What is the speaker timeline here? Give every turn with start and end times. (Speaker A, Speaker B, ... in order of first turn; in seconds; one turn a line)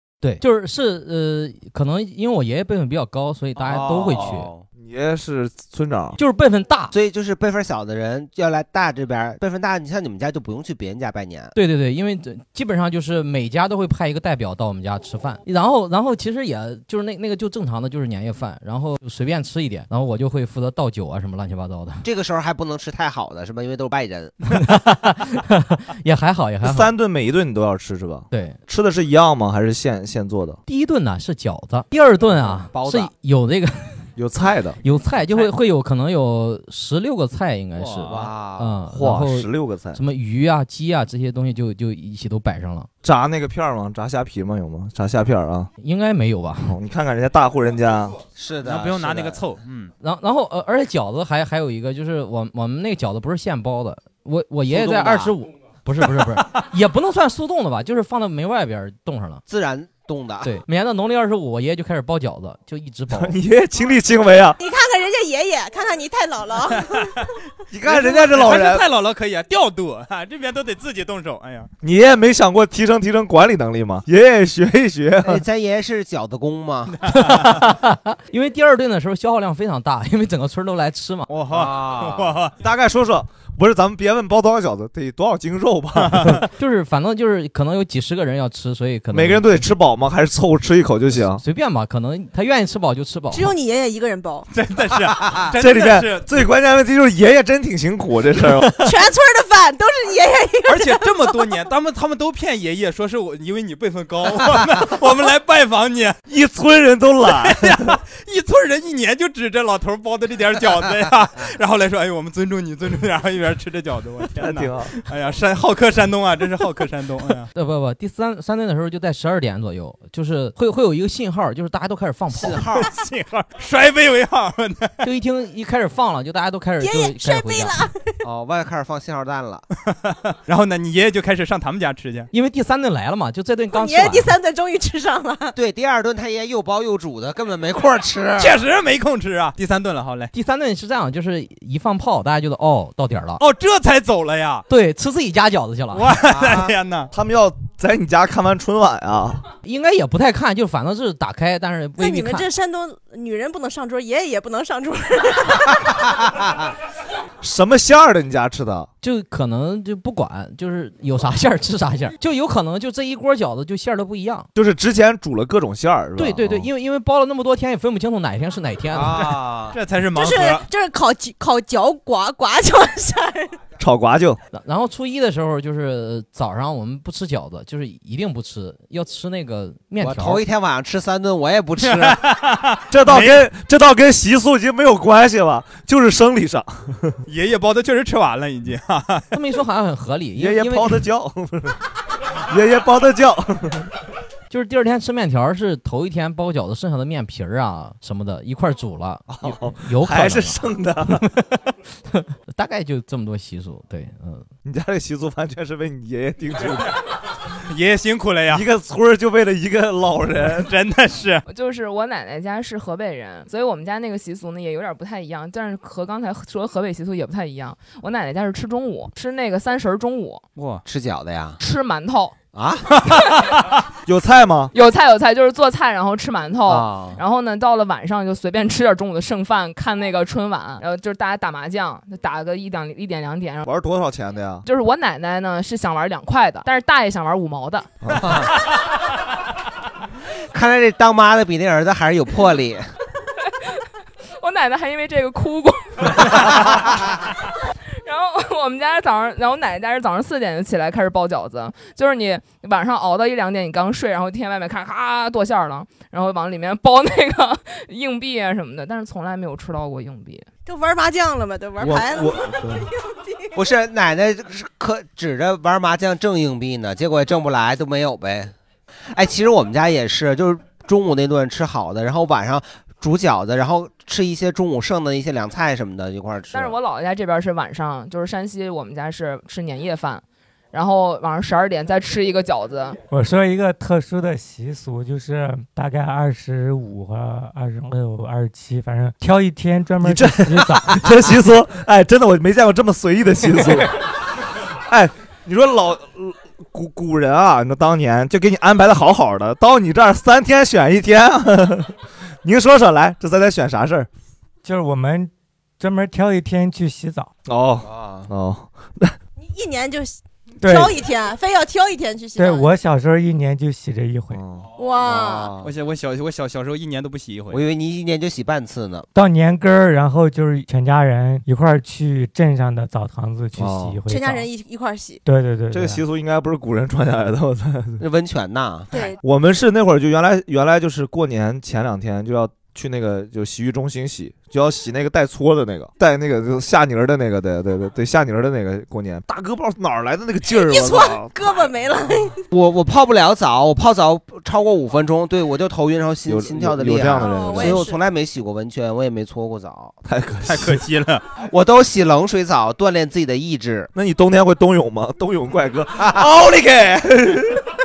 Speaker A: 0.2-4.5
Speaker B: 3.6-4.7
Speaker C: 3.7-6.2
Speaker A: 6.2-6.9
Speaker B: 6.9-11.5
Speaker A: 11.5-22.0
Speaker B: 22.0-24.4
Speaker A: 24.5-26.9
Speaker C: 26.6-30.6
Speaker A: 28.3-28.6
Speaker A: 30.7-34.1
Speaker B: 32.7-33.1
Speaker C: 34.1-34.8
Speaker A: 34.8-42.9
Speaker B: 37.8-38.8
Speaker C: 38.9-40.0
Speaker C: 43.0-45.7
Speaker A: 45.8-46.8
Speaker C: 46.7-48.2
Speaker B: 48.4-49.4
Speaker D: 48.6-49.9
Speaker A: 50.0-59.4
Speaker B: 54.7-55.4
Speaker B: 59.5-60.5
Speaker A: 60.4-63.4
Speaker C: 63.1-64.6
Speaker E: 64.6-67.1
Speaker D: 66.8-67.2
Speaker C: 67.7-68.8
Speaker D: 67.9-71.7
Speaker C: 71.8-75.5
Speaker B: 75.2-77.0
Speaker D: 77.0-77.5
Speaker A: 77.1-81.3
Speaker D: 81.3-82.5
Speaker B: 81.5-82.4
Speaker C: 82.6-86.4
Speaker D: 86.0-86.4
Speaker A: 86.4-89.7
Speaker C: 89.1-91.4
Speaker A: 91.2-93.5
Speaker E: 93.3-94.5
Speaker D: 94.5-96.4
Speaker C: 95.5-98.9
Speaker E: 98.6-101.7
Speaker D: 100.7-106.2
Speaker C: 106.3-108.0
Speaker D: 107.3-117.5
Speaker C: 114.3-114.9
Speaker A: 117.5-122.6
Speaker B: 122.3-122.9
Speaker D: 122.8-125.0
Speaker A: 125.0-127.8
Speaker E: 126.8-128.2
Speaker B: 128.2-129.7
Speaker D: 129.9-132.3
Speaker A: 132.3-134.3
Speaker E: 133.7-135.6
Speaker B: 135.5-138.6
Speaker D: 138.4-140.3
Speaker A: 140.3-143.4
Speaker D: 143.4-144.7
Speaker A: 144.7-146.0
Speaker D: 145.9-147.1
Speaker B: 146.3-146.7
Speaker C: 147.1-149.4
Speaker A: 149.6-152.5
Speaker E: 152.0-156.0
Speaker C: 157.4-158.9
Speaker A: 159.0-164.5
Speaker C: 164.6-166.7
Speaker A: 166.2-169.3
Speaker B: 168.9-169.8
Speaker D: 169.2-170.7
Speaker E: 170.1-173.6
Speaker C: 173.8-174.4
Speaker A: 174.5-180.4
Speaker B: 180.0-182.2
Speaker D: 181.8-183.4
Speaker C: 182.9-187.2
Speaker D: 187.3-189.3
Speaker A: 189.3-191.0
Speaker C: 190.3-191.8
Speaker C: 192.5-193.9
Speaker A: 194.5-204.5
Speaker C: 199.3-201.3
Speaker C: 204.6-206.9
Speaker D: 207.6-208.7
Speaker C: 208.5-210.7
Speaker D: 210.5-211.4
Speaker F: 211.5-220.4
Speaker D: 220.6-220.8
Speaker B: 220.8-221.6
Speaker F: 221.6-222.3
Speaker B: 222.5-223.0
Speaker C: 224.1-224.7
Speaker F: 224.7-233.7
Speaker B: 226.7-227.2
Speaker C: 233.6-234.7
Speaker F: 234.6-237.9
Speaker C: 238.0-238.3
Speaker B: 238.2-238.5
Speaker B: 240.5-242.9
Speaker F: 244.4-246.8
Speaker F: 248.0-260.5
Speaker E: 260.6-263.5
Speaker C: 261.8-262.9
Speaker B: 263.5-268.5
Speaker B: 269.1-276.8
Speaker F: 276.5-283.0
Speaker G: 283.1-291.1
Speaker C: 290.0-294.0
Speaker C: 294.9-304.1
Speaker G: 304.6-307.3
Speaker C: 307.4-309.2
Speaker B: 307.8-308.3
Speaker E: 309.4-312.7
Speaker G: 310.6-311.0
Speaker G: 312.4-314.4
Speaker C: 314.3-314.7
Speaker E: 314.8-315.5
Speaker B: 315.0-315.7
Speaker D: 315.6-317.6
Speaker B: 317.5-319.1
Speaker G: 319.1-324.5
Speaker C: 323.6-324.0
Speaker E: 324.1-325.2
Speaker G: 325.2-326.0
Speaker C: 325.7-328.0
Speaker B: 328.0-329.1
Speaker E: 328.9-329.2
Speaker C: 329.2-341.6
Speaker E: 340.4-342.4
Speaker B: 342.5-349.9
Speaker C: 346.2-347.9
Speaker E: 347.1-348.0
Speaker C: 350.0-350.8
Speaker D: 350.4-351.2
Speaker B: 351.5-353.9
Speaker C: 353.9-357.7